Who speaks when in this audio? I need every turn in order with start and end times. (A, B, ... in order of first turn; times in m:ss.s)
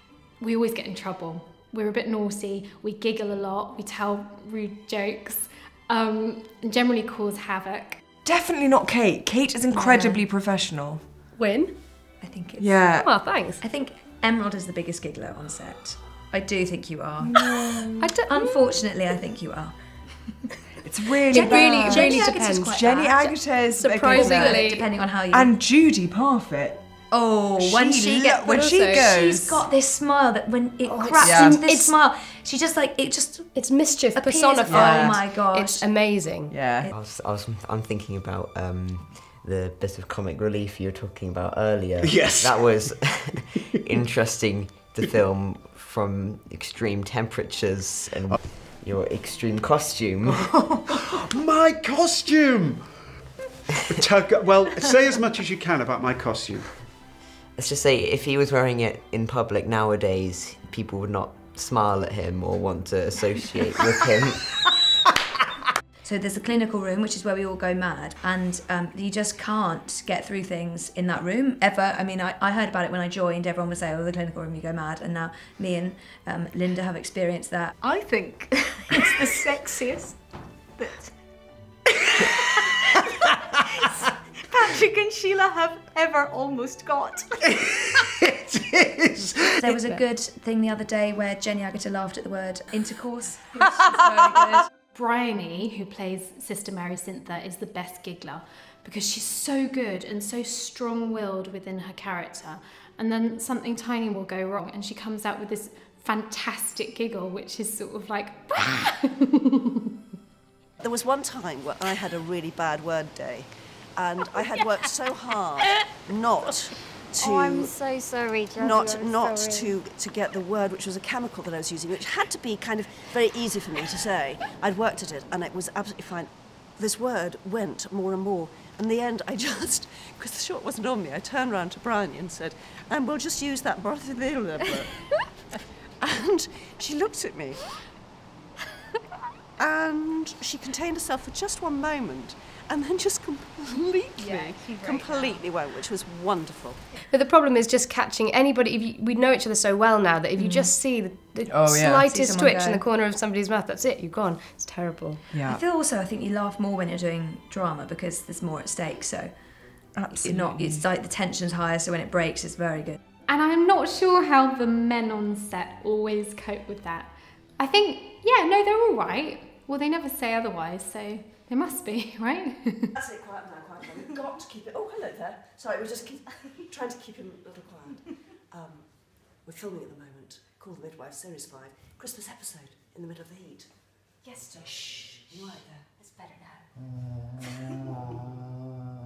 0:00.4-0:08.0 A
0:08.2-0:11.0 B
0:09.7-0:10.2 C
0:11.3-0:11.8 D
0:12.2-0:20.4 C
0:12.6-0:13.4 B
0:12.9-0:13.6 D
0:17.2-0:17.9 B
0:18.0-0:18.8 D
0:20.8-0:26.8 B
0:21.2-0:22.8 D
0:21.3-0:23.4 C
0:23.7-0:24.9 D
0:24.1-0:25.5 C
0:27.1-0:36.2 C
0:27.6-0:29.7 B
0:28.4-0:29.1 D
0:30.8-0:32.0 D
0:31.2-0:31.6 B
0:33.5-0:36.6 D
0:34.7-0:35.2 B
0:36.5-0:36.9 B
0:36.9-0:50.5 E
0:51.2-0:52.7 F
0:54.1-0:56.5 F
0:57.6-1:04.5 E
1:06.0-1:17.7 C
1:17.8-1:20.2 G
1:24.5-1:27.3 G
1:29.6-1:34.7 C
1:34.9-1:49.5 A
1:50.8-1:57.8 H
1:57.2-1:59.7 I
1:58.5-2:17.6 H
2:19.6-2:26.9 H
2:24.4-2:25.1 G
2:27.1-2:35.2 D
2:30.4-2:30.7 C
2:31.4-2:32.0 B
2:32.0-2:32.8 C
2:35.3-2:35.6 B
2:35.4-2:43.0 C
2:39.9-2:40.8 B
2:43.3-2:52.9 A
2:52.9-3:06.0 H